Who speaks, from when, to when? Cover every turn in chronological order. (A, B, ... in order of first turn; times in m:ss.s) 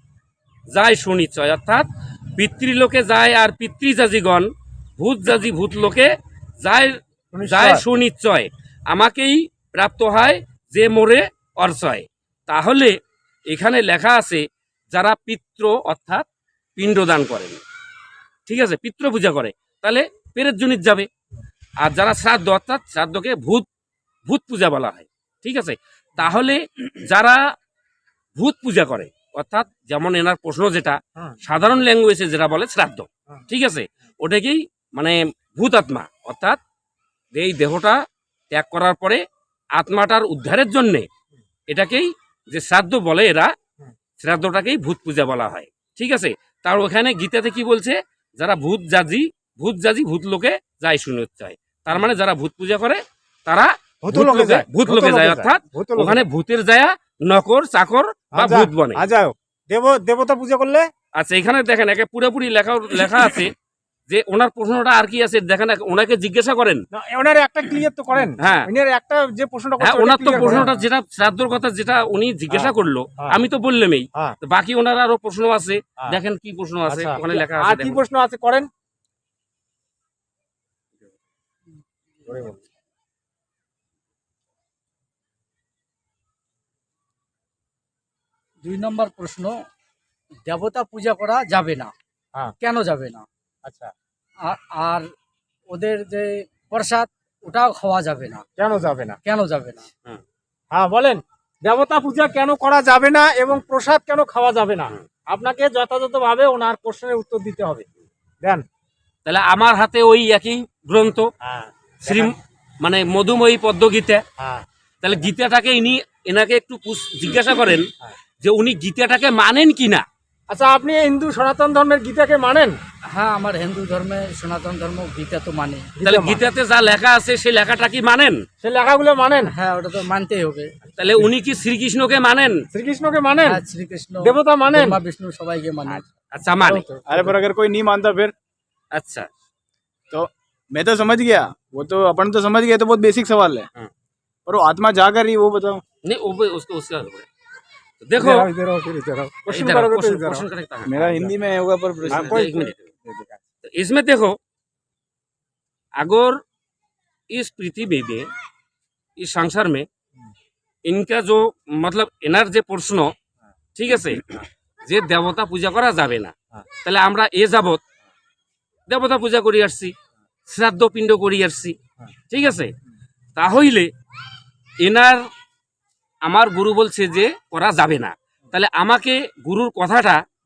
0:00.7-0:13.0 A
0:07.3-0:07.8 B
0:13.5-0:16.3 A
0:16.8-0:17.6 A
0:18.5-0:21.1 A
0:21.8-0:23.7 A
0:24.3-0:27.4 A
0:28.4-0:36.6 A
0:37.3-0:39.2 A
0:39.8-0:41.1 A
0:41.7-0:43.5 A
0:44.2-0:59.0 A
0:54.0-0:56.2 B
0:58.3-1:00.9 B
1:01.2-1:03.5 A
1:04.1-1:06.8 A
1:06.9-1:10.7 B
1:08.4-1:08.7 A
1:09.8-1:18.0 A
1:12.5-1:13.4 B
1:16.9-1:18.7 B
1:22.3-1:22.6 B
1:28.6-1:29.5 C
1:30.5-1:31.9 C
1:32.6-1:33.3 C
1:33.6-1:33.9 B
1:34.4-1:35.1 C
1:35.7-1:38.5 C
1:38.6-1:39.2 B
1:39.2-1:39.9 C
1:40.7-1:47.9 B
1:49.3-1:51.3 A
1:51.4-1:52.3 B
1:52.1-1:54.2 A
1:54.4-1:54.7 B
1:55.0-1:57.9 A
1:58.4-2:00.0 A
2:00.5-2:02.8 B
2:03.1-2:05.9 C
2:06.0-2:06.4 B
2:06.0-2:08.4 A
2:08.6-2:09.5 B
2:09.5-2:10.7 C
2:11.0-2:12.6 A
2:12.7-2:13.6 B
2:13.4-2:16.0 C
2:14.2-2:15.0 B
2:16.3-2:16.9 A
2:16.6-2:17.0 B
2:17.1-2:18.3 D
2:18.9-2:19.3 A
2:20.1-2:23.7 D
2:24.5-2:25.8 D
2:26.0-2:27.3 A
2:28.0-2:28.5 A
2:28.2-2:30.5 B
2:29.5-2:31.2 A
2:30.9-2:32.5 D
2:32.1-2:32.9 A
2:32.1-2:33.4 B
2:33.6-2:34.4 A
2:36.0-2:36.4 A
2:37.3-2:38.3 A
2:39.2-2:39.9 A
2:40.9-2:43.1 A
2:43.8-2:47.8 A
2:48.9-2:49.9 A
2:50.5-2:51.8 A
2:52.3-2:52.7 A
2:53.4-2:53.9 A
2:54.8-2:55.2 A
2:56.3-3:00.2 A